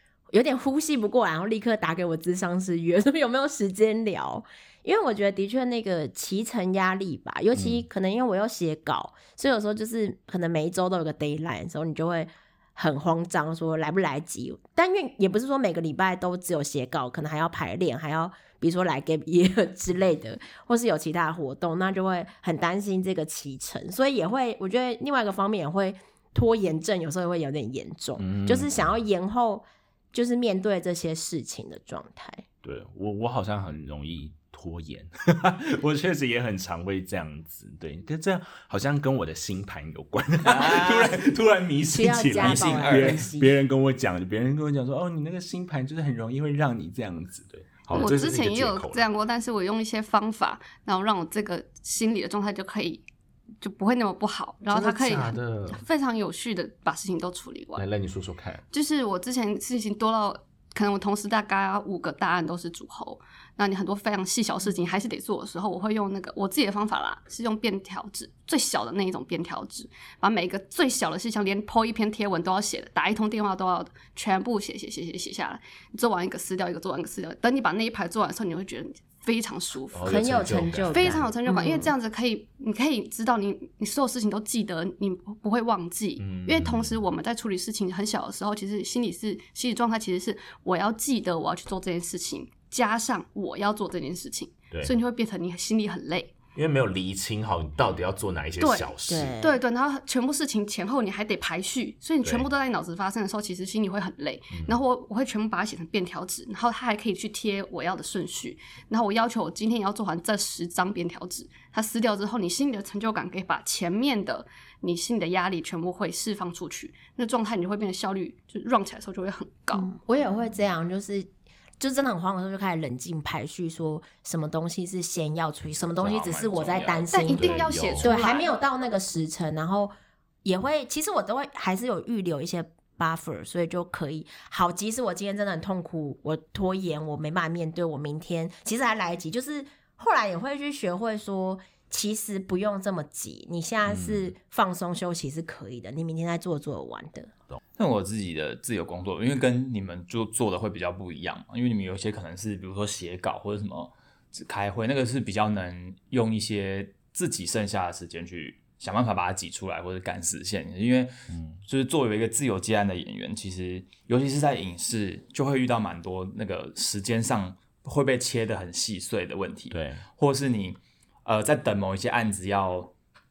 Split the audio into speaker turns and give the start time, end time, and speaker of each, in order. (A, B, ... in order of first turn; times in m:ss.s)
0:00.3-0:32.4 A
0:07.5-0:07.8 B
0:28.2-0:29.0 B
0:32.6-0:49.0 B
0:40.4-0:41.2 C
0:41.9-0:43.5 A
0:42.4-0:43.2 C
0:47.9-0:53.0 D
0:53.6-0:57.8 D
0:54.7-0:55.8 B
0:57.7-0:58.6 B
0:58.7-1:36.3 D
1:19.9-1:21.2 B
1:20.0-1:21.9 A
1:26.2-1:27.0 B
1:36.5-1:39.3 B
1:38.6-1:59.9 D
1:39.1-1:39.6 A
1:44.5-1:44.8 B
1:59.7-2:01.3 A
2:01.8-2:09.9 A
2:06.2-2:06.9 C
2:06.8-2:08.1 B
2:07.1-2:08.5 D
2:10.4-2:27.3 A
2:23.8-2:24.3 B
2:27.8-2:52.9 C
2:41.3-2:41.6 B
2:49.7-2:50.0 B